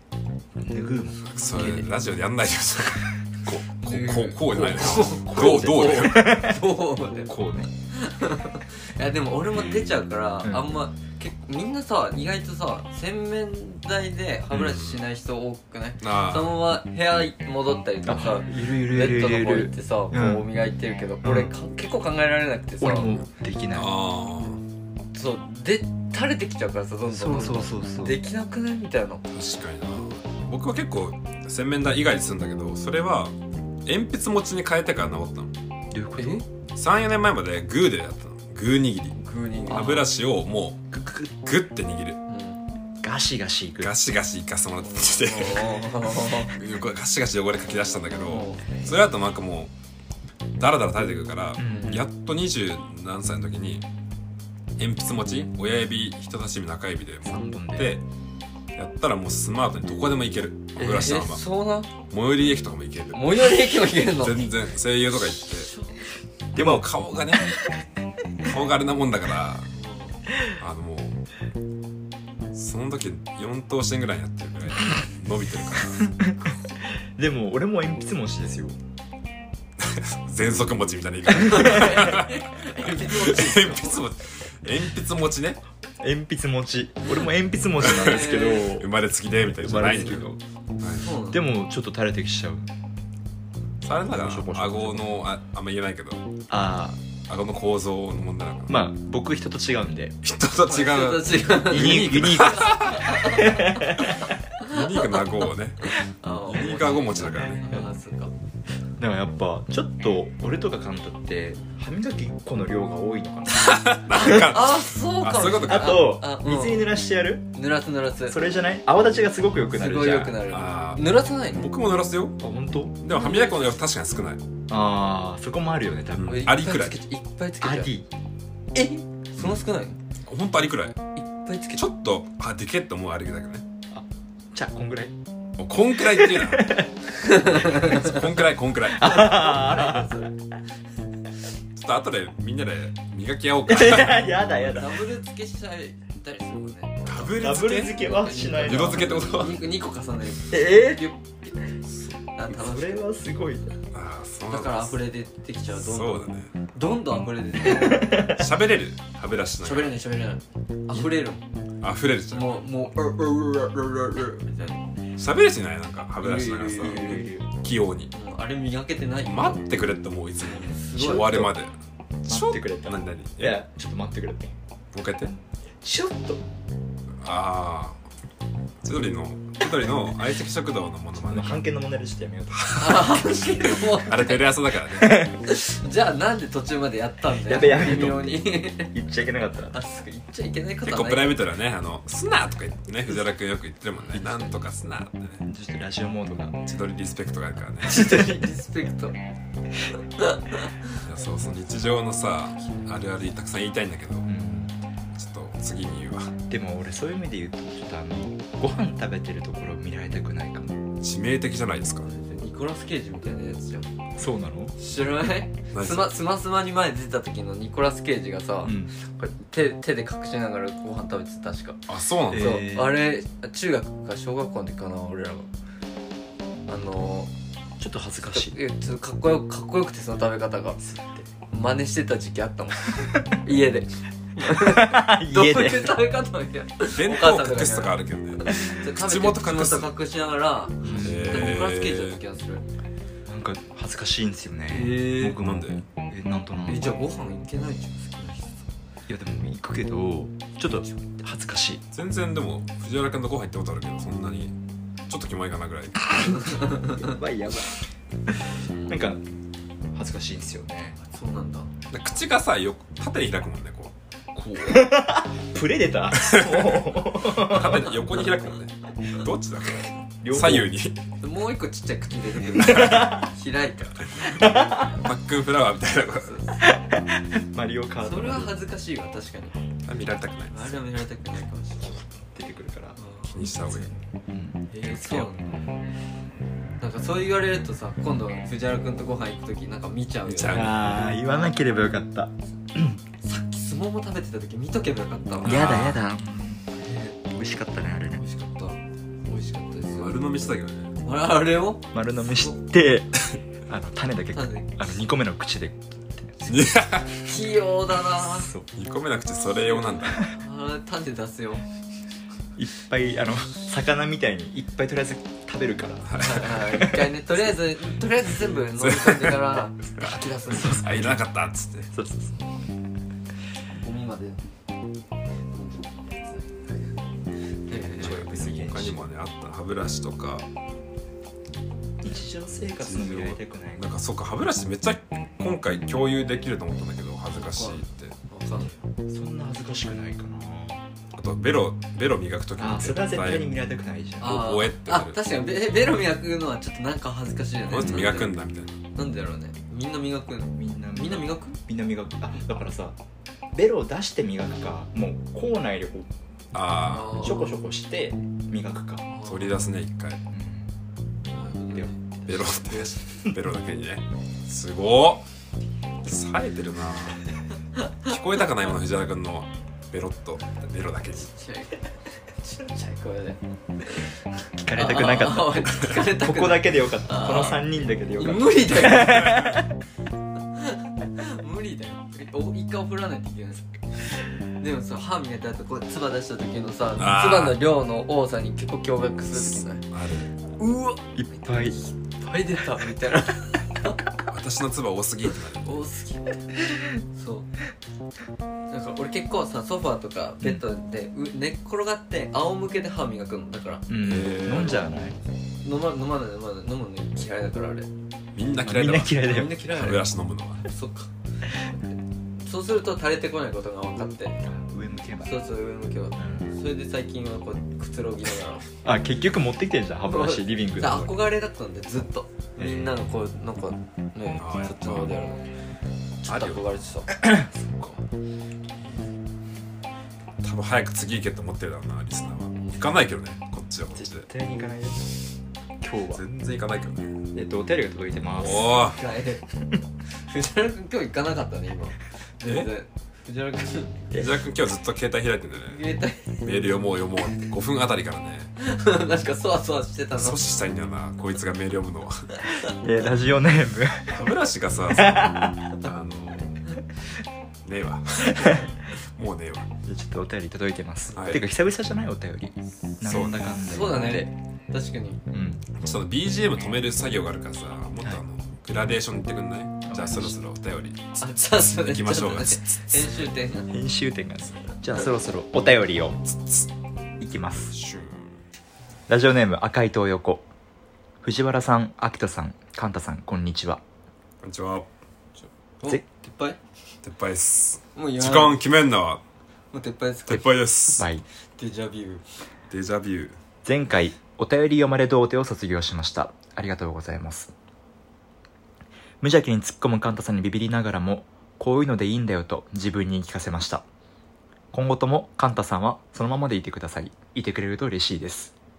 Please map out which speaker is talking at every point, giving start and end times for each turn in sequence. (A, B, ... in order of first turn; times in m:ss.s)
0:00.6-0:01.9 A
0:01.2-0:01.7 B
0:01.4-0:03.2 C
0:03.8-0:06.4 C
0:03.8-0:07.4 B
0:04.6-0:06.6 A
0:07.3-0:07.7 A
0:07.9-0:23.2 B
0:14.5-0:15.0 C
0:16.0-0:16.6 C
0:18.0-0:20.4 A
0:21.2-0:21.5 A
0:22.8-0:23.9 A
0:23.7-0:24.6 C
0:25.1-0:29.2 B
0:27.1-0:28.2 A
0:29.3-0:33.3 C
0:33.9-0:35.5 C
0:35.9-0:36.4 A
0:36.2-0:36.4 B
0:36.8-0:42.2 C
0:39.2-0:40.1 B
0:40.9-0:41.3 A
0:42.3-0:42.6 B
0:43.0-0:43.9 A
0:43.8-0:45.8 C
0:44.8-0:46.6 B
0:46.4-0:49.7 C
0:48.3-0:48.8 B
0:50.6-0:53.8 C
0:51.6-0:52.1 A
0:54.8-0:58.0 C
0:57.2-0:57.9 A
0:58.8-1:01.4 C
1:00.8-1:01.1 A
1:00.8-1:01.9 B
1:02.1-1:05.7 C
1:03.2-1:04.4 B
1:05.1-1:06.1 B
1:06.5-1:07.7 A
1:06.6-1:07.6 C
1:08.4-1:09.7 C
1:09.7-1:10.2 B
1:10.5-1:11.2 C
1:12.5-1:16.1 C
1:16.0-1:16.4 A
1:16.9-1:18.8 A
1:19.8-1:25.6 C
1:21.4-1:24.0 B
1:21.5-1:22.2 A
1:26.0-1:28.9 A
1:27.8-1:30.3 C
1:27.8-1:28.7 B
1:29.5-1:30.4 A
1:30.8-1:31.1 C
1:31.0-1:31.4 B
1:31.3-1:32.7 A
1:33.8-1:36.2 C
1:34.0-1:35.2 A
1:36.5-1:37.0 A
1:37.3-1:38.8 C
1:38.7-1:40.2 A
1:40.2-1:43.2 C
1:40.7-1:48.3 B
1:41.7-1:44.3 A
1:44.1-1:47.6 C
1:49.0-1:54.4 A
1:53.5-1:56.1 C
1:54.1-1:56.9 B
1:55.7-1:57.5 A
1:57.5-1:58.4 B
1:58.3-2:00.4 A
1:59.7-2:01.6 B
2:00.5-2:02.4 C
2:02.4-2:03.0 A
2:03.0-2:04.4 C
2:03.1-2:03.7 B
2:04.7-2:06.4 A
2:06.1-2:07.0 C
2:06.3-2:07.9 B
2:07.6-2:08.1 A
2:08.7-2:10.0 B
2:10.3-2:11.0 C
2:11.2-2:11.9 B
2:11.8-2:13.6 C
2:13.9-2:15.2 A
2:15.6-2:16.8 C
2:16.0-2:16.9 A
2:17.2-2:18.2 B
2:17.4-2:19.0 C
2:18.9-2:20.1 A
2:19.0-2:20.4 B
2:21.8-2:24.8 C
2:23.7-2:25.0 A
2:24.7-2:33.1 B
2:27.0-2:28.0 C
2:27.3-2:29.4 A
2:28.6-2:29.6 C
2:30.5-2:31.0 A
2:32.5-2:33.8 A
2:33.9-2:35.0 C
2:34.5-2:38.4 B
2:35.7-2:36.5 C
2:37.6-2:38.4 A
2:38.3-2:40.0 C
2:39.6-2:41.4 B
2:41.8-2:42.6 C
2:42.3-2:44.9 B
2:45.2-2:48.1 C
2:46.2-2:47.4 B
2:46.8-2:47.4 A
2:48.1-2:49.6 B
2:49.2-2:53.6 C
2:50.4-2:51.5 B
2:52.3-2:54.5 A
2:54.9-2:55.3 C
2:55.3-2:56.4 A
2:57.2-2:58.0 C
2:58.8-3:01.6 C
3:01.3-3:03.2 A
3:02.5-3:05.3 C
3:02.8-3:04.5 B
3:04.9-3:05.4 A
3:05.4-3:08.9 B
3:07.5-3:09.8 A
3:09.7-3:11.4 B
3:10.8-3:15.4 C
3:14.1-3:14.5 A
3:15.4-3:16.6 A
3:16.7-3:18.2 C
3:17.8-3:19.2 B
3:20.0-3:21.0 B
3:21.0-3:24.3 C
3:24.3-3:24.8 A
3:25.2-3:26.3 C
3:26.5-3:30.8 A
3:31.0-3:32.1 C
3:32.0-3:33.9 B
3:34.2-3:34.8 A
3:34.8-3:41.8 B
3:35.7-3:36.2 C
3:38.6-3:38.9 A
3:41.9-3:42.6 C
3:42.3-3:43.0 A
3:42.4-3:45.5 B
3:46.7-3:47.3 B
3:47.8-3:48.6 A
3:48.2-3:50.8 B
3:50.8-3:51.2 A
3:51.3-4:02.6 B
3:54.4-3:56.0 A
3:57.0-3:59.9 C
4:00.8-4:01.5 A
4:00.9-4:02.2 C
4:03.3-4:07.0 A
4:04.7-4:05.4 B
4:05.4-4:05.8 C
4:06.7-4:08.7 B
4:09.1-4:11.8 A
4:11.9-4:14.5 C
4:15.1-4:16.7 C
4:16.2-4:17.1 B
4:16.6-4:19.2 A
4:19.9-4:21.0 A
4:21.0-4:21.7 B
4:21.9-4:25.0 C
4:24.6-4:27.9 A
4:26.1-4:31.0 C
4:27.5-4:28.3 B
4:30.2-4:30.7 A
4:31.2-4:34.8 B
4:32.6-4:33.1 C
4:32.6-4:33.3 A
4:34.3-4:36.4 C
4:34.4-4:34.9 A
4:36.2-4:36.8 B
4:36.6-4:38.6 A
4:38.0-4:39.6 B
4:39.8-4:40.9 C
4:40.5-4:42.0 B
4:42.0-4:43.0 A
4:43.0-4:43.3 B
4:43.3-4:43.9 C
4:43.6-4:45.5 A
4:44.7-4:45.6 B
4:46.8-4:50.8 B
4:50.3-4:51.0 C
4:50.5-4:53.0 A
4:53.2-4:55.8 B
4:55.4-4:56.0 C
4:55.4-4:56.6 A
4:56.8-4:57.2 B
4:57.3-4:58.2 A
4:58.2-5:00.3 B
5:00.0-5:00.9 C
5:01.0-5:02.6 B
5:01.9-5:03.2 A
5:03.7-5:06.4 A
5:04.3-5:04.8 B
5:06.4-5:08.5 B
5:06.5-5:07.3 C
5:08.3-5:08.7 A
5:08.7-5:10.3 C
5:09.7-5:11.6 B
5:12.6-5:17.1 A
5:16.0-5:16.5 C
5:16.2-5:20.9 B
5:18.7-5:21.9 C
5:20.5-5:21.2 A
5:21.9-5:22.4 A
5:23.7-5:24.4 B
5:25.5-5:27.0 B
5:27.7-5:28.2 B
5:27.7-5:29.1 A
5:28.0-5:30.5 C
5:32.0-5:33.9 A
5:32.8-5:38.2 C
5:37.3-5:38.7 B
5:39.1-5:40.8 A
5:41.1-5:43.5 C
5:42.6-5:44.4 A
5:44.2-5:48.3 B
5:44.2-5:45.2 C
5:47.7-5:48.8 C
5:49.0-5:51.6 B
5:50.6-5:53.0 A
5:53.5-5:56.1 A
5:56.5-5:57.2 C
5:56.8-5:57.6 B
5:57.2-5:59.0 A
5:59.1-5:59.6 B
5:59.2-6:00.2 C
6:00.3-6:00.7 A
6:01.3-6:02.0 B
6:01.7-6:02.3 A
6:02.3-6:05.3 C
6:06.0-6:07.3 C
6:08.1-6:11.3 C
6:11.2-6:14.1 B
6:14.6-6:19.7 A
6:14.7-6:17.6 B
6:18.2-6:19.5 B
6:20.6-6:23.7 B
6:24.6-6:29.8 B
6:27.0-6:27.6 C
6:29.3-6:30.3 C
6:30.6-6:34.0 B
6:31.2-6:31.8 A
6:34.3-6:35.9 C
6:35.6-6:37.5 B
6:38.7-6:43.9 B
6:43.9-6:45.2 A
6:44.0-6:44.8 C
6:45.6-6:47.9 B
6:48.4-6:50.6 C
6:48.6-6:49.6 A
6:49.2-6:50.1 B
6:50.6-6:54.4 B
6:54.4-6:55.4 A
6:55.2-6:58.7 B
6:56.2-6:56.5 A
6:58.8-7:01.2 A
7:00.1-7:05.5 B
7:02.6-7:03.1 A
7:04.4-7:05.1 C
7:06.2-7:07.1 B
7:06.3-7:06.6 C
7:07.1-7:08.0 A
7:10.4-7:14.3 C
7:12.6-7:13.0 B
7:13.9-7:15.2 A
7:15.8-7:16.2 A
7:16.1-7:17.2 C
7:17.3-7:18.9 A
7:18.4-7:19.0 C
7:18.6-7:19.4 B
7:20.2-7:24.0 B
7:22.4-7:22.7 C
7:24.1-7:25.8 C
7:25.6-7:26.5 B
7:26.4-7:28.5 C
7:28.6-7:30.4 B
7:30.2-7:32.4 C
7:32.7-7:34.3 A
7:34.1-7:36.7 C
7:34.9-7:35.7 A
7:37.6-7:39.7 C
7:38.3-7:38.7 A
7:39.9-7:44.3 A
7:41.1-7:41.4 B
7:41.1-7:41.4 C
7:43.0-7:43.6 C
7:43.6-7:45.2 B
7:45.3-7:45.7 A
7:45.8-7:53.2 C
7:49.9-7:50.4 A
7:51.2-7:53.7 B
7:53.7-7:56.2 A
7:56.3-7:56.7 C
7:57.2-7:57.7 A
7:57.7-7:58.4 C
7:59.1-8:00.5 A
8:01.2-8:03.8 A
8:04.4-8:04.9 C
8:05.8-8:06.6 B
8:07.0-8:09.2 C
8:08.0-8:08.6 B
8:09.7-8:10.5 B
8:10.3-8:11.1 C
8:11.0-8:11.2 A
8:11.6-8:12.2 B
8:12.7-8:13.4 C
8:13.6-8:17.5 A
8:19.2-8:23.8 A
8:24.7-8:28.5 A